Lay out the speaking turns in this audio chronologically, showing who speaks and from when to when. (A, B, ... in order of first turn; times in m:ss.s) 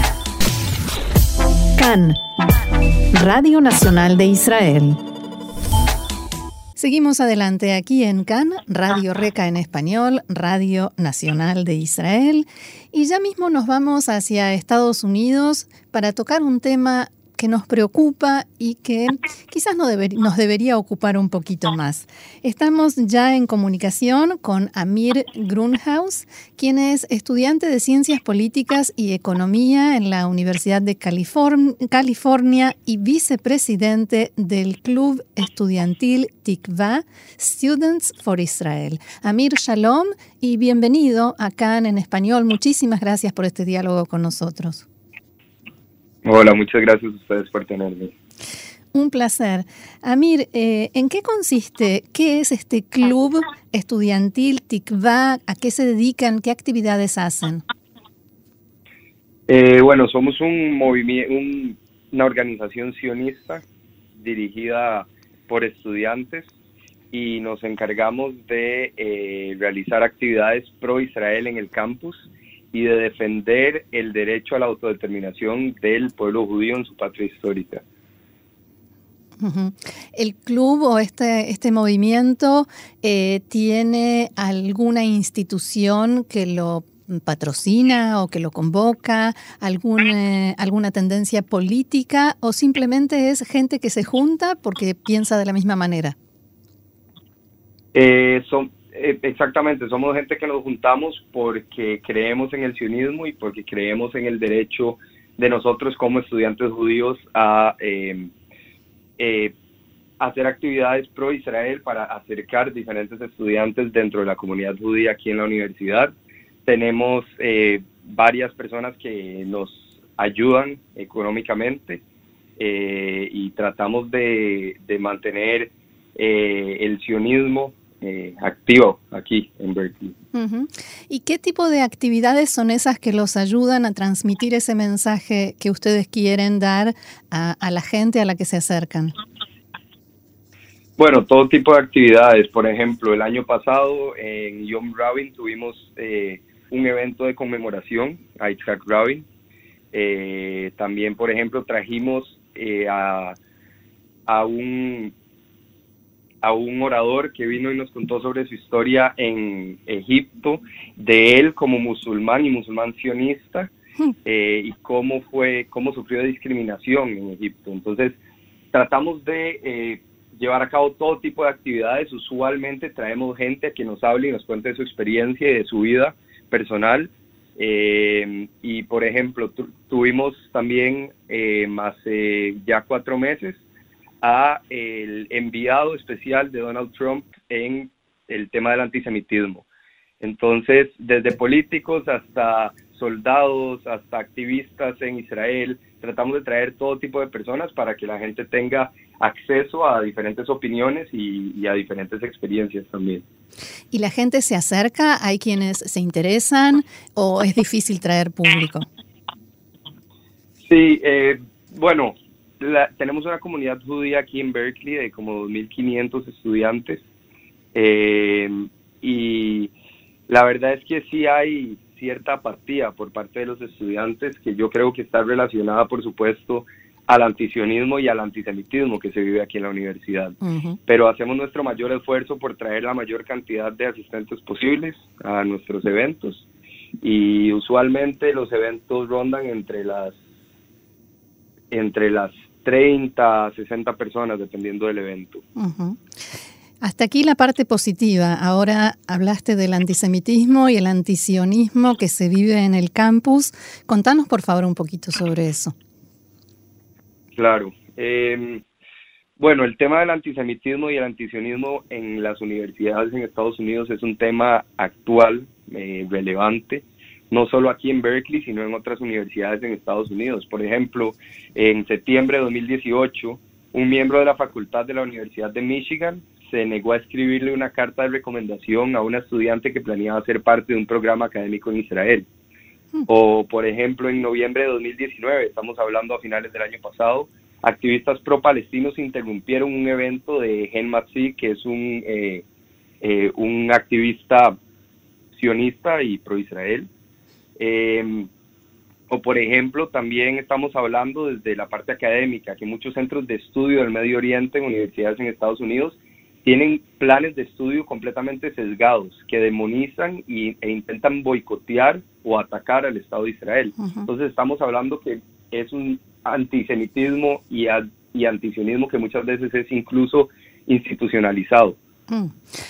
0:01.8-0:02.2 A
0:03.1-0:05.0 A
0:06.8-0:44.9 A
0:46.2-0:48.1 B
0:48.9-0:57.6 A
0:59.5-1:03.6 B
1:04.2-1:06.5 B
1:07.1-1:17.8 B
1:19.4-1:36.2 A
1:37.9-1:48.3 B
1:49.2-1:49.5 B
1:50.2-1:56.1 B
1:56.6-2:02.0 B
2:02.6-2:10.2 B
2:10.3-2:19.2 A
2:21.0-2:29.3 B
2:29.9-2:33.4 B
2:34.3-2:35.1 B
2:36.4-2:43.7 B
2:44.2-2:48.2 B
2:48.7-3:03.6 B
3:04.2-3:09.7 B
3:10.2-3:23.2 B
3:23.9-3:28.9 A
3:30.6-3:37.0 B
3:37.7-3:39.7 B
3:40.3-3:56.5 B
3:50.4-3:50.8 A
3:57.0-4:00.2 B
4:01.7-4:05.4 B
4:05.6-4:06.0 A
4:06.8-4:15.8 A
4:17.4-4:18.6 B
4:19.4-4:42.3 B
4:43.1-4:52.4 B
4:53.0-4:54.6 B
4:55.3-4:56.9 B
4:57.6-4:58.3 B
4:59.1-5:21.8 B
5:13.8-5:14.1 A
5:22.1-5:22.4 A